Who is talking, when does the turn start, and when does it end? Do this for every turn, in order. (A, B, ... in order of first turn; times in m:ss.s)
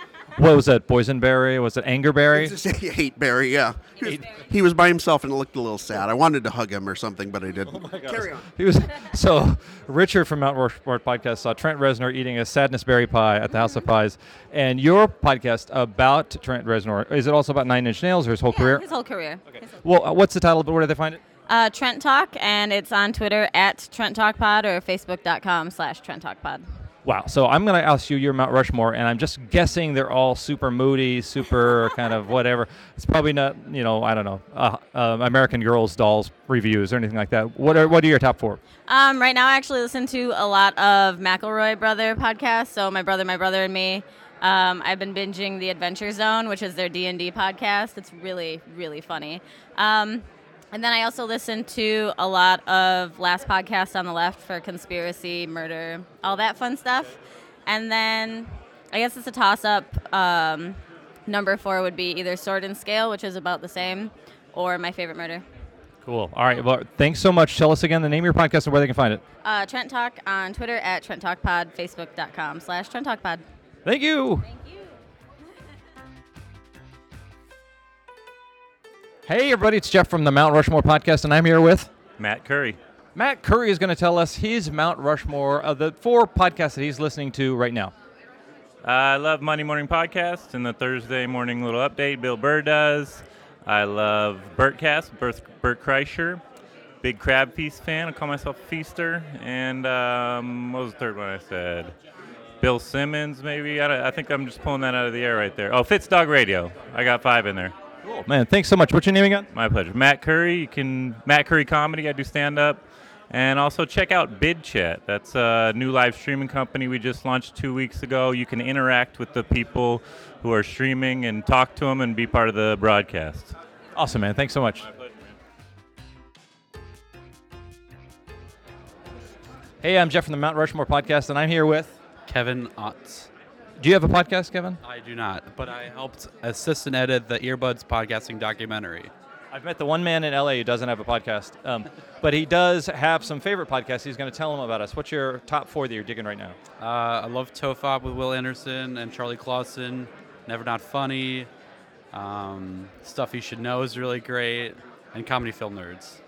0:00.4-0:02.6 A
0:02.3-0:08.5 B
0:07.7-0:18.9 A
0:18.5-0:19.3 C
0:19.5-0:21.2 A
0:21.5-0:26.6 C
0:27.0-0:38.6 A
0:39.0-0:50.2 C
0:50.8-0:56.9 C
0:57.8-0:58.4 C
0:59.0-1:00.7 C
1:01.3-1:05.4 C
1:06.0-1:09.2 A
1:09.5-1:13.4 C
1:13.8-1:14.5 A
1:19.3-1:21.9 A
1:22.2-1:22.8 D
1:23.2-1:27.9 A
1:28.8-1:36.4 D
1:37.0-1:42.0 D
1:42.6-1:47.7 D
1:48.1-1:49.5 A
1:49.5-2:03.6 D
2:04.0-2:04.9 A
2:09.8-2:11.9 A
2:12.3-2:13.3 E
2:13.8-2:14.8 A
2:14.8-2:19.1 E
2:19.5-2:26.6 A
2:26.8-2:31.5 E
2:32.1-2:36.2 E